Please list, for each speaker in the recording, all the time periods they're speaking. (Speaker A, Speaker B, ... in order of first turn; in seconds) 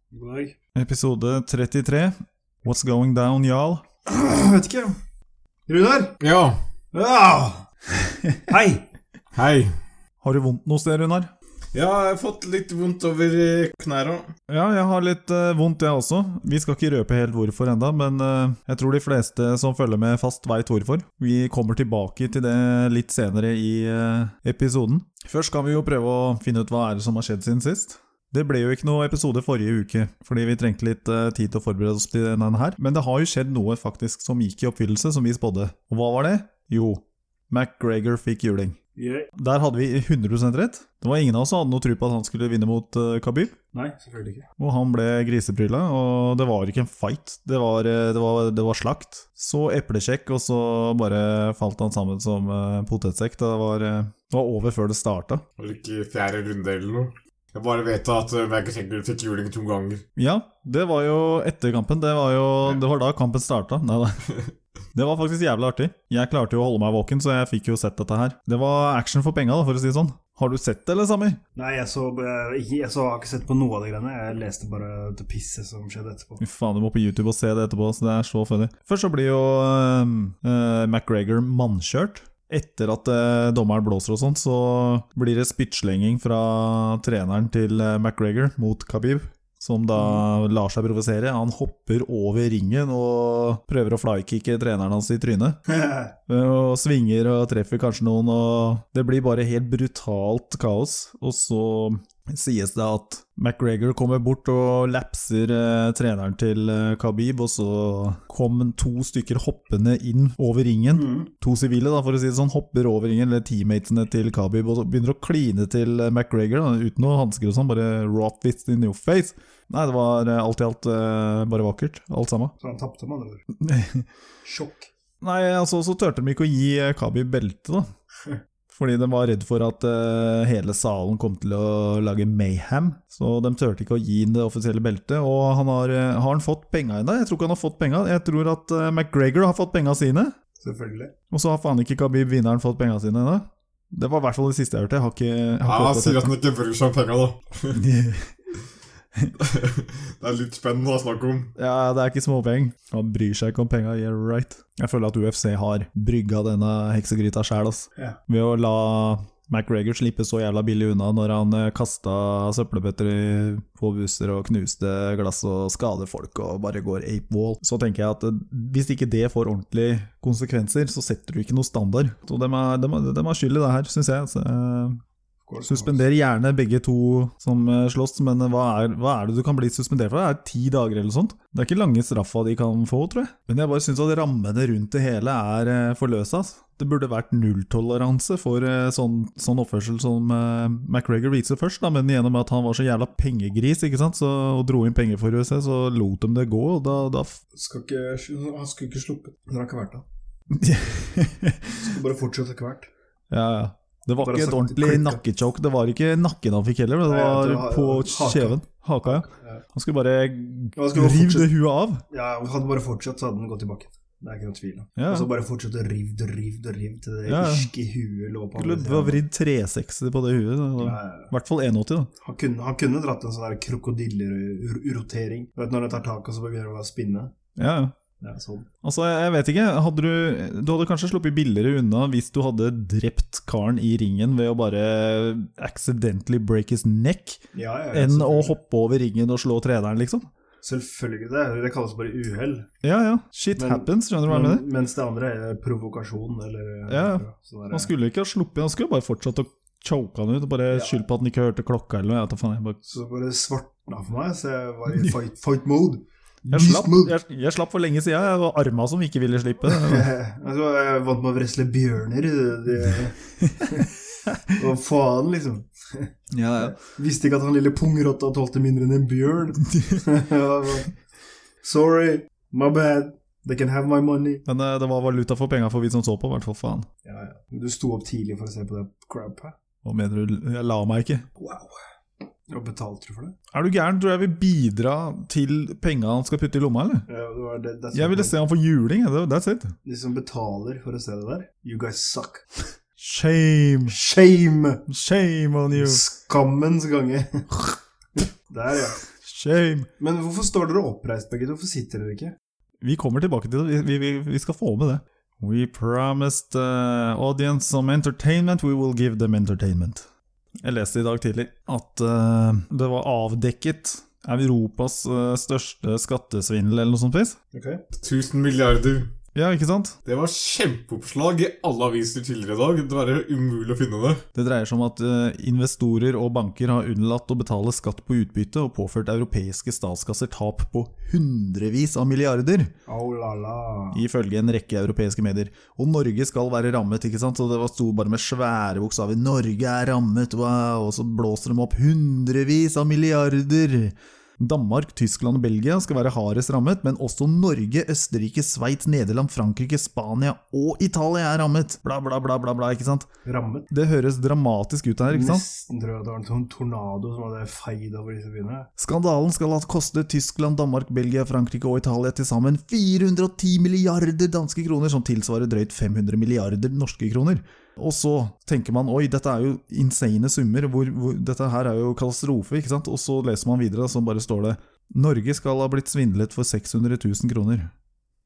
Speaker A: 0.1-0.6, 4.1-5.0, 5.7-6.2, 6.9-7.7, 8.5-8.9, 39.0-39.3, 43.7-44.5, 71.6-76.4, 90.0-90.2, 95.7-96.1, 110.9-111.3, 122.6-123.5, 124.5-124.9, 140.6-141.1, 175.5-176.1, 197.5-200.1, 201.8-202.9, 204.2-205.2, 207.1-209.6, 210.8-211.5, 212.1-219.2, 220.8-221.3, 222.2-227.3, 228.2-228.7, 237.5-238.6, 240.6-242.7, 243.6-247.9, 250.7-251.0, 252.8-257.2, 259.7-263.9, 264.5-270.9, 271.6-274.4, 277.1-279.5, 281.4-281.7, 282.5-283.4, 287.1-288.4, 289.9-292.4, 293.9-294.9, 295.8-297.5, 298.5-299.0, 300.0-302.4, 317.5-317.8, 332.9-334.0, 353.2-353.7, 355.1-358.7
Speaker B: 0.8-3.8, 10.2-11.3, 14.5-38.8, 39.4-43.5, 44.6-55.4, 60.2-64.3, 65.0-71.4, 76.4-95.6, 96.3-122.5, 123.6-124.1, 125.2-127.9, 128.7-140.3, 141.3-146.3, 147.7-148.3, 151.6-175.0, 175.6-197.4, 200.5-201.7, 203.3-212.0, 215.0-215.3, 217.3-217.7, 218.6-222.1, 227.6-227.9, 228.8-237.4, 237.9-240.3, 242.8-244.7, 246.9-252.8, 256.5-260.1, 266.3-266.8, 269.7-270.1, 274.5-276.9, 279.8-281.3, 283.5-287.1, 287.9-289.8, 293.0-294.0, 294.9-296.0, 299.2-299.9, 302.8-310.1, 310.6-317.4, 319.4-319.9, 324.4-332.7, 333.9-353.1, 353.7-355.4, 358.8-377.7
Speaker C: 6.2-6.6, 9.3-9.7, 11.7-14.3, 55.6-60.0, 145.7-147.8, 149.4-151.5, 318.0-319.1, 320.1-324.2